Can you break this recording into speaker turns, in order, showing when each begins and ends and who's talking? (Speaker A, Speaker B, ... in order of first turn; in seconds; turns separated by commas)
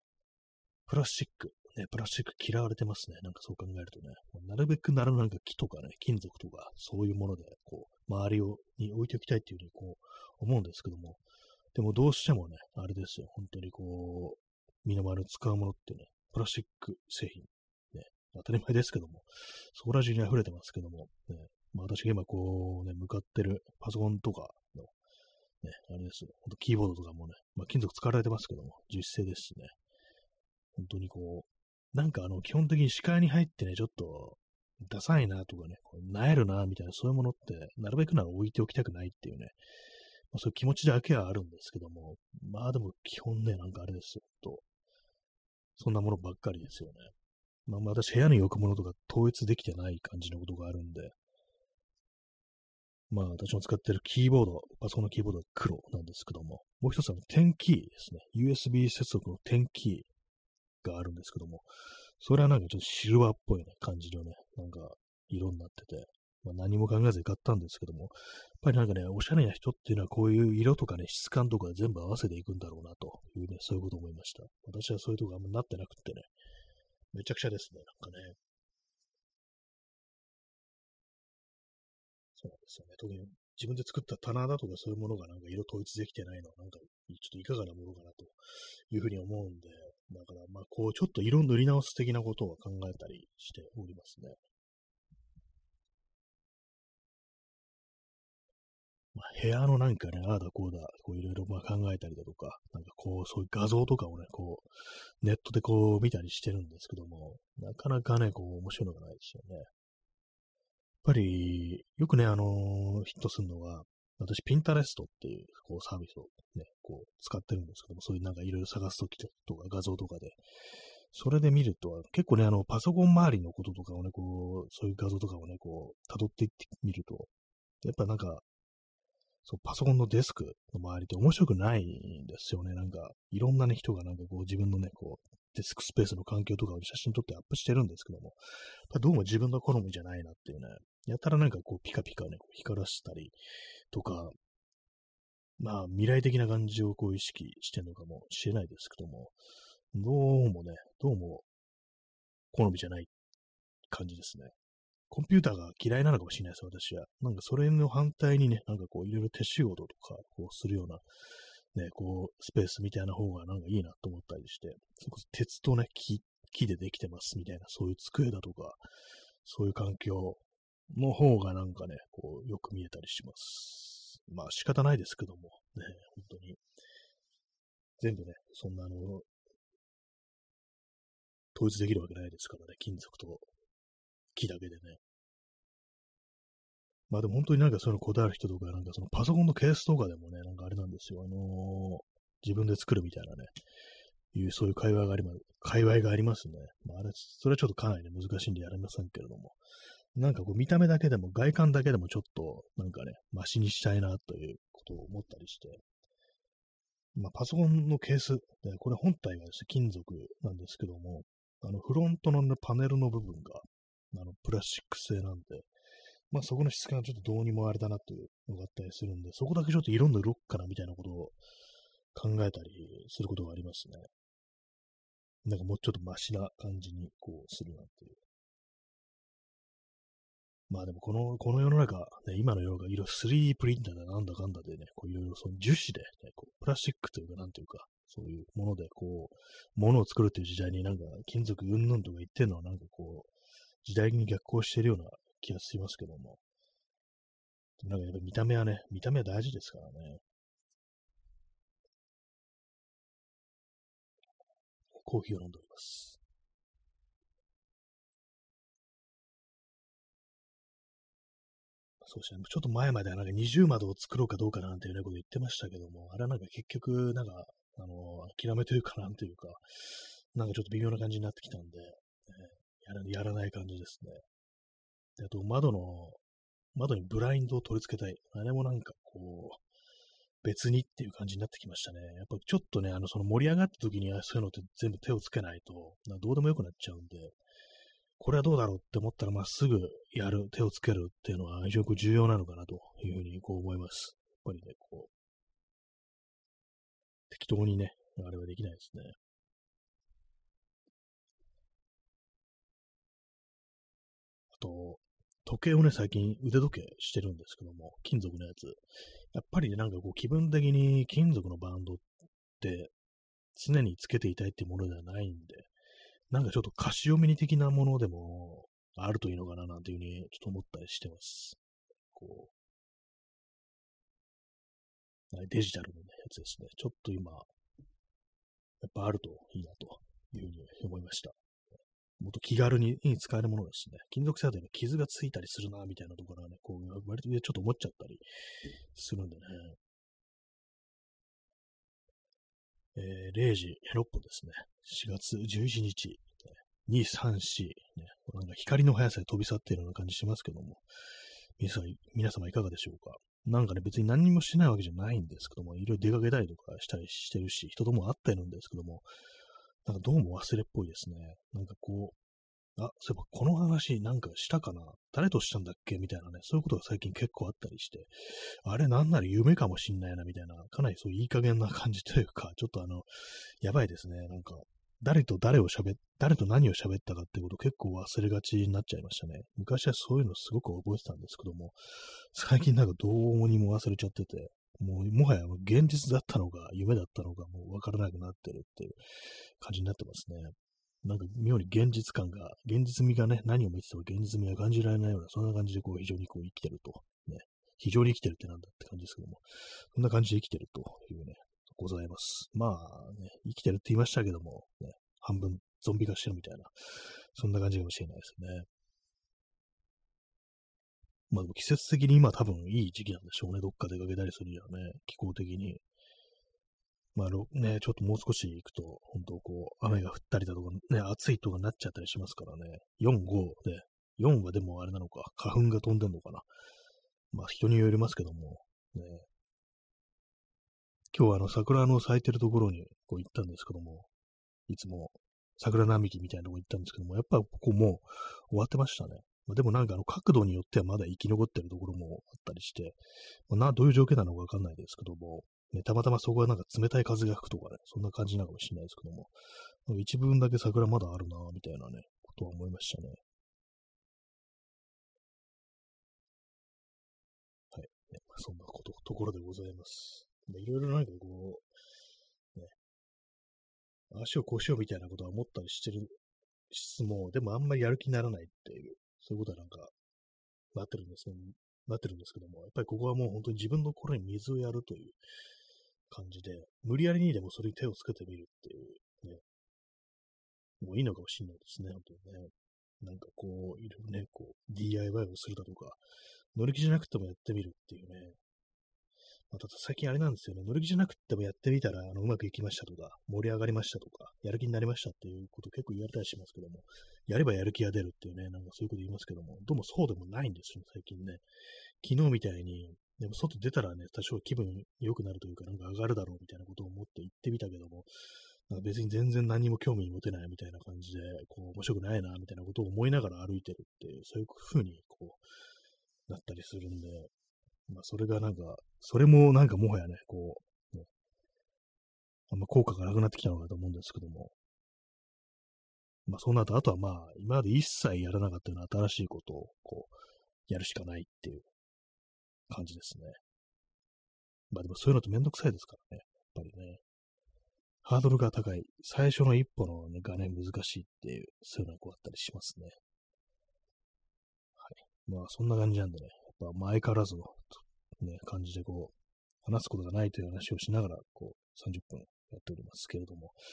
Speaker A: 0.8-11.2, Speaker A: 11.7-24.9, Speaker A: 25.6-29.8, Speaker A: 30.8-39.5, Speaker A: 40.3-44.6, Speaker A: 45.8-47.1, Speaker A: 47.7-51.1, Speaker A: 53.1-60.1, Speaker A: 60.8-76.3, Speaker A: 77.1-78.4, Speaker A: 82.3-94.4, Speaker A: 99.1-104.7, Speaker A: 105.2-109.7, Speaker A: 111.0-120.4, Speaker A: 121.1-127.3, Speaker A: 127.8-128.4, Speaker A: 129.4-143.3, Speaker A: 143.9-144.3, Speaker A: 145.6-149.4, Speaker A: 149.9-151.5, Speaker A: 152.5-153.1, Speaker A: 153.9-154.5, Speaker A: 155.1-161.0, Speaker A: 161.7-168.8, Speaker A: 169.4-176.6, Speaker A: 178.0-179.3, Speaker A: 181.5-183.5, Speaker A: 184.3-185.0, Speaker A: 187.1-193.5, Speaker A: 194.3-199.6, Speaker A: 200.1-205.8, Speaker A: 207.1-215.7, Speaker A: 216.3-221.4, Speaker A: 222.1-224.1, Speaker A: 225.4-228.2, Speaker A: 230.7-243.3, Speaker A: 243.8-246.4, Speaker A: 247.8-250.2, Speaker A: 254.9-256.2, Speaker A: 262.0-274.2, Speaker A: 275.2-276.2, Speaker A: 276.7-279.6, Speaker A: 280.4-287.4, Speaker A: 288.2-295.1, Speaker A: 297.3-299.1, Speaker A: 304.5-312.1, Speaker A: 312.6-312.9, Speaker A: 313.5-315.7, Speaker A: 316.3-321.6, Speaker A: 322.1-322.5, Speaker A: 325.3-327.5, Speaker A: 328.8-331.4, Speaker A: 332.2-338.2, Speaker A: 338.9-339.8, Speaker A: 342.9-350.9, Speaker A: 351.6-359.1, Speaker A: 359.8-362.2, Speaker A: 362.8-408.7, Speaker A: 411.3-415.8, Speaker A: 417.1-426.4, Speaker A: 427.3-429.3, Speaker A: 431.1-434.1, Speaker A: 434.7-453.2, Speaker A: 457.7-461.7, Speaker A: 464.1-466.2, Speaker A: 466.7-469.9, Speaker A: 470.7-475.2, Speaker A: 476.1-479.4, Speaker A: 480.8-486.0, Speaker A: 486.5-488.4, Speaker A: 489.5-501.4, Speaker A: 502.0-508.1, Speaker A: 508.7-515.4, Speaker A: 516.3-517.3, Speaker A: 517.9-521.1, Speaker A: 522.5-524.5, Speaker A: 526.2-531.7, Speaker A: 532.7-533.4, Speaker A: 534.7-537.0, Speaker A: 538.0-543.0, Speaker A: 544.8-553.6